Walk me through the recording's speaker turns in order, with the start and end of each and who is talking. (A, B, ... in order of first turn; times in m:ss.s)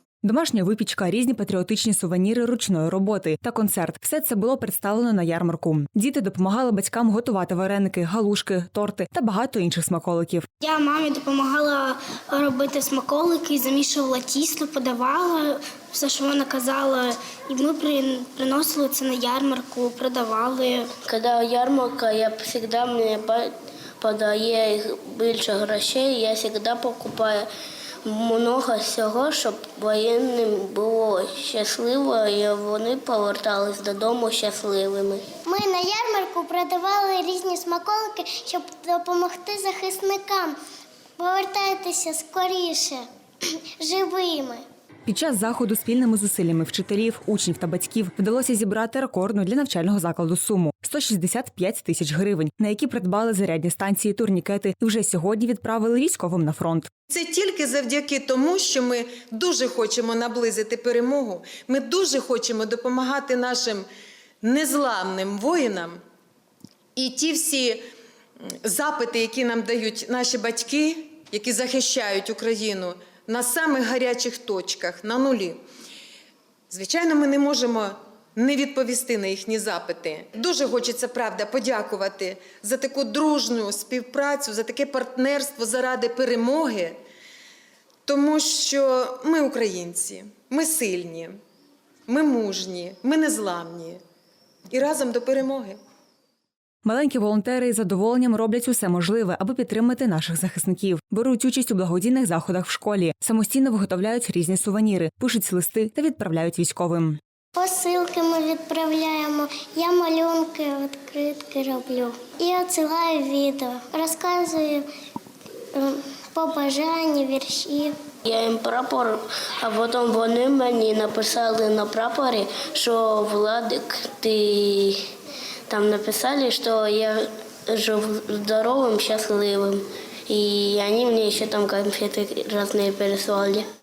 0:00.2-0:10.5 A
0:10.6-0:21.0 B
0:21.0-0:27.4 C
0:28.0-0:35.3 C
0:35.4-0:40.6 D
0:41.2-0:43.0 D
0:43.6-0:44.6 D
0:45.0-0:56.9 A
0:57.1-1:03.8 E
1:04.4-1:06.0 E
1:07.0-1:07.8 E
1:08.6-1:15.6 E
1:16.7-1:27.0 E
1:28.0-1:31.3 E
1:32.1-1:34.0 E
1:34.7-1:35.8 E
1:36.8-1:47.2 A
1:47.5-1:54.8 D
1:55.7-1:58.0 D
1:58.2-2:05.0 C
2:05.7-2:13.6 C